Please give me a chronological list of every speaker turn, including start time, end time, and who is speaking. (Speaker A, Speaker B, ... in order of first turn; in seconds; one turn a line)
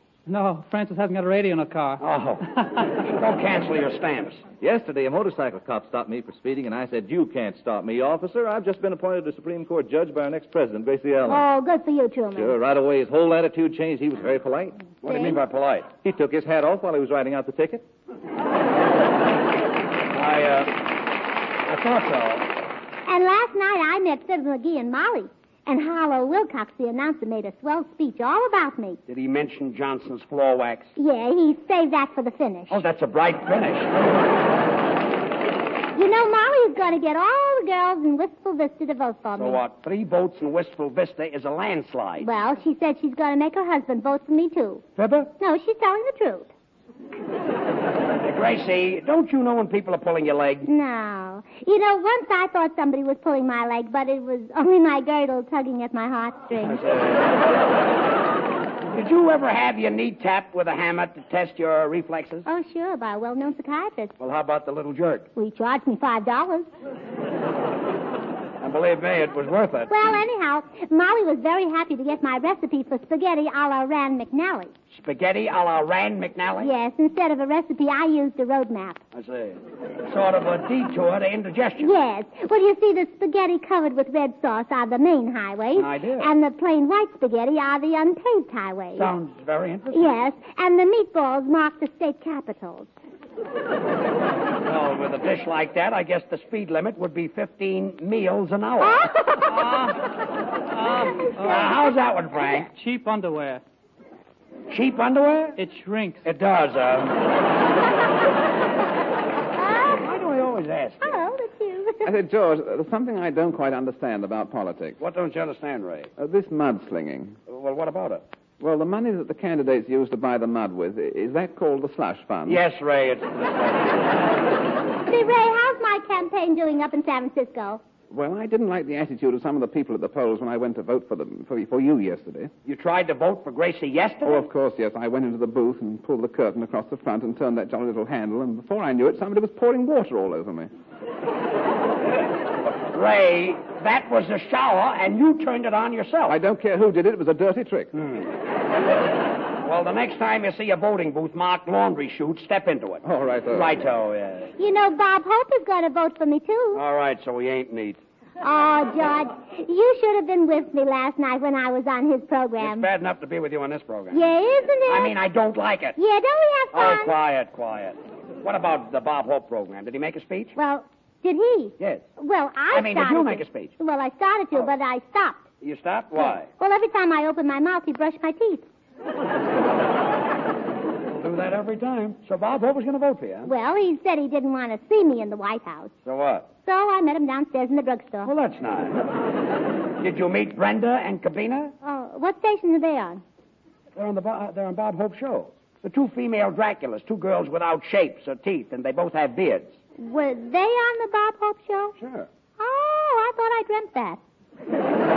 Speaker A: 0.3-2.0
Speaker B: 2.0-2.4
Speaker B: 3.0-4.4
Speaker C: 4.6-11.4
Speaker D: 11.3-12.6
Speaker C: 12.3-14.8
Speaker B: 15.0-15.9
Speaker D: 15.1-15.4
Speaker C: 16.0-17.8
Speaker B: 20.1-20.8
Speaker B: 21.6-22.5
Speaker D: 23.1-29.0
Speaker B: 29.1-30.9
Speaker D: 31.0-32.8
Speaker B: 32.7-34.2
Speaker D: 35.9-39.6
Speaker B: 39.3-42.3
Speaker D: 42.2-44.8
Speaker B: 45.0-45.3
Speaker D: 45.4-46.5
Speaker B: 48.2-50.7
Speaker D: 50.6-56.8
Speaker B: 56.6-57.4
Speaker B: 58.9-62.5
Speaker D: 62.5-64.1
Speaker B: 64.2-65.3
Speaker D: 65.3-66.7
Speaker B: 68.6-69.9
Speaker D: 69.9-74.7
Speaker B: 74.9-76.7
Speaker D: 76.6-79.0
Speaker B: 79.1-81.9
Speaker D: 81.8-89.1
Speaker B: 85.7-86.3
Speaker B: 89.0-90.1
Speaker D: 89.9-92.9
Speaker B: 94.6-99.3
Speaker D: 98.8-99.5
Speaker A: 99.6-99.9
Speaker A: 100.8-101.8
Speaker B: 101.3-102.7
Speaker A: 102.6-103.6
Speaker B: 104.7-105.5
Speaker A: 105.6-106.3
Speaker B: 106.2-107.2
Speaker D: 109.6-110.0
Speaker B: 109.9-111.2
Speaker D: 111.0-112.1
Speaker E: 112.0-115.0
Speaker B: 115.0-116.1
Speaker E: 116.2-117.4
Speaker B: 117.5-118.2
Speaker E: 118.6-122.6
Speaker B: 122.5-124.1
Speaker D: 125.1-127.8
Speaker E: 128.1-132.5
Speaker B: 132.7-134.5
Speaker E: 134.2-140.7
Speaker B: 142.7-146.4
Speaker E: 146.2-147.9
Speaker B: 148.0-148.3
Speaker B: 149.6-154.5
Speaker E: 153.0-153.8
Speaker D: 154.6-156.8
Speaker B: 156.7-158.0
Speaker D: 158.4-162.9
Speaker B: 162.6-164.2
Speaker D: 164.1-165.1
Speaker B: 164.9-166.0
Speaker D: 166.0-167.1
Speaker B: 166.7-170.5
Speaker D: 170.6-175.4
Speaker B: 171.8-172.0
Speaker B: 172.7-173.7
Speaker B: 175.6-176.5
Speaker D: 176.2-178.7
Speaker B: 181.1-183.5
Speaker D: 183.4-185.9
Speaker B: 186.0-186.5
Speaker D: 186.7-188.3
Speaker B: 188.2-189.1
Speaker B: 190.0-191.7
Speaker D: 191.8-193.2
Speaker B: 193.9-199.8
Speaker D: 200.0-201.9
Speaker B: 202.0-202.3
Speaker D: 202.6-204.2